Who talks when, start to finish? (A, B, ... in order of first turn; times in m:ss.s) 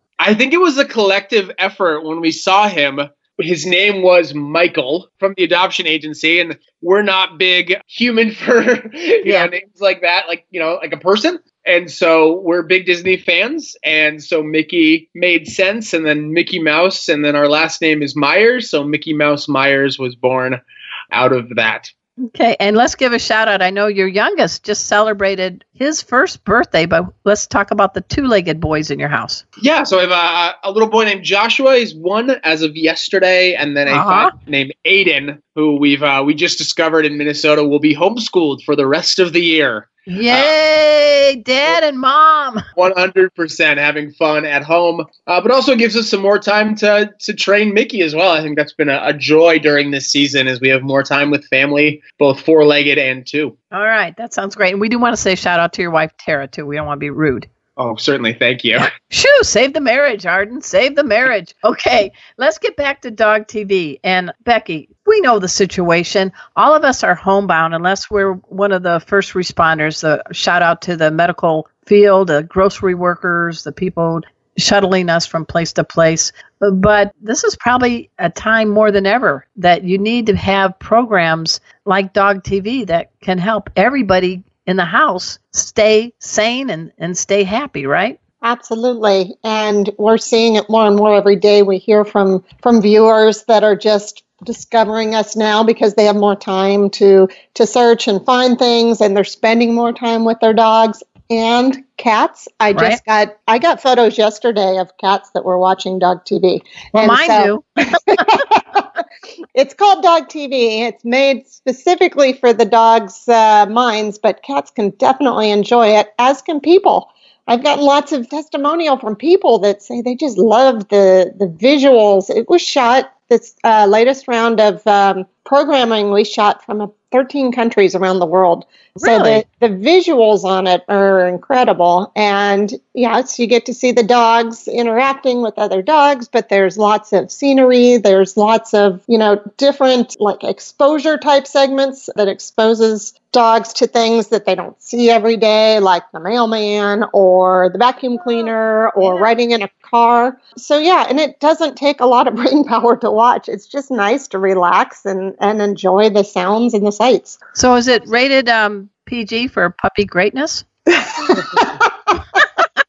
0:00.2-0:20.6 A
0:09.2-0:09.5 B
0:21.1-0:21.9 A
0:22.2-0:29.4 B
0:29.6-0:40.5 A
0:33.9-0:34.3 B
0:40.1-0:42.6 B
0:42.8-0:53.5 A
0:53.7-0:57.5 B
0:57.8-0:58.9 A
0:58.8-1:28.2 B
1:28.4-1:47.5 C
1:42.7-1:43.0 B
1:47.0-1:48.3 B
1:48.1-1:48.9 C
1:49.5-2:37.4 C
2:09.0-2:09.4 B
2:37.5-2:40.6 B
2:41.0-2:42.4 C